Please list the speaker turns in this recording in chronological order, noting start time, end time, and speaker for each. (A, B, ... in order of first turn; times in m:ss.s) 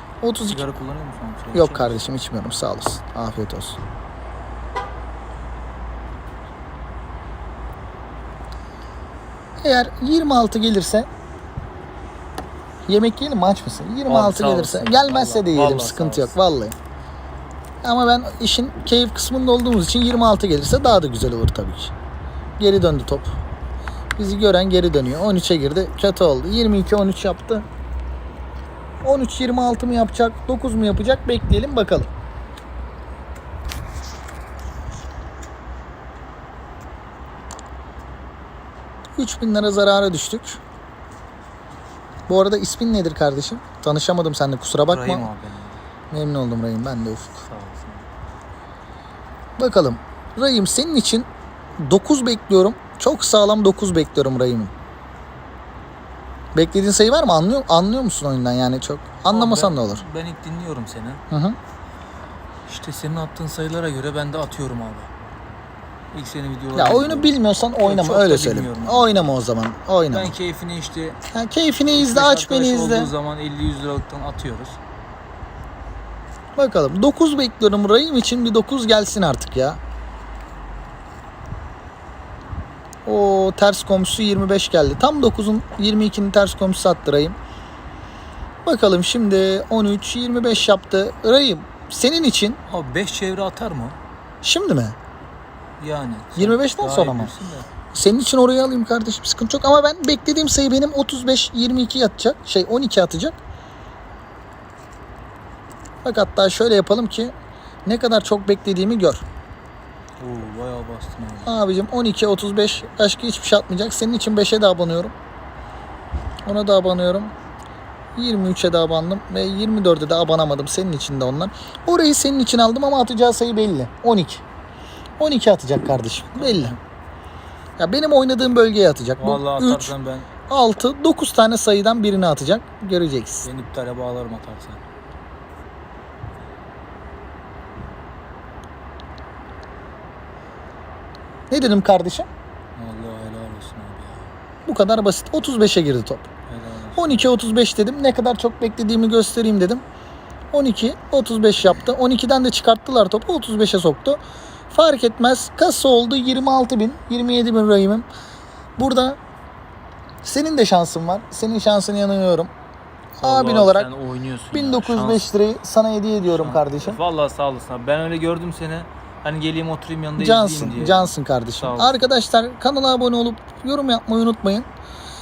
0:00.2-0:00.6 A
0:00.5-0:02.0 B
0:01.5-0:03.8 A
0:09.6-0:11.1 A
0:12.9-0:16.8 A
0:14.1-0:16.4 B
0:17.8-0:21.9 A
0:22.6-0:23.3 A
0:24.2-0:27.6 A
0:29.0-0:32.1 A
0:39.2-0:40.6 A
0:42.3-0:45.3 A
0:44.9-0:45.8 B
0:46.1-0:47.5 A
0:47.5-0:48.1 B
0:49.6-0:51.3 A
0:51.8-0:54.7 A
0:56.5-1:00.0 A
0:59.3-1:01.2 B
1:01.3-1:01.6 A
1:02.7-1:05.1 B
1:06.1-1:09.3 B
1:06.8-1:10.4 A
1:10.1-1:11.2 B
1:11.3-1:13.1 A
1:11.9-1:14.8 B
1:16.6-1:19.8 A
1:23.0-1:27.4 A
1:28.6-1:32.6 A
1:32.7-1:34.0 B
1:34.4-1:35.0 A
1:35.8-1:37.7 B
1:36.4-1:37.3 A
1:37.9-1:43.4 A
1:46.0-1:47.3 A
1:47.9-1:49.2 A
1:50.2-1:51.5 B
1:51.4-1:55.1 A
1:56.4-1:57.3 A
1:58.2-2:04.4 A
2:05.2-2:06.8 A
2:06.4-2:06.8 B
2:07.8-2:09.9 A
2:09.2-2:10.3 B
2:10.5-2:13.5 A
2:13.4-2:14.8 B
2:21.5-2:22.3 A
2:22.8-2:24.3 B
2:24.7-2:26.3 A
2:26.5-2:27.3 B
2:26.9-2:29.8 A
2:30.5-2:38.1 A
2:38.8-2:39.2 A
2:40.2-2:42.5 A
2:43.2-2:43.9 A
2:43.2-2:45.2 B
2:44.5-2:47.0 A
2:46.3-2:52.1 B
2:50.2-2:54.7 A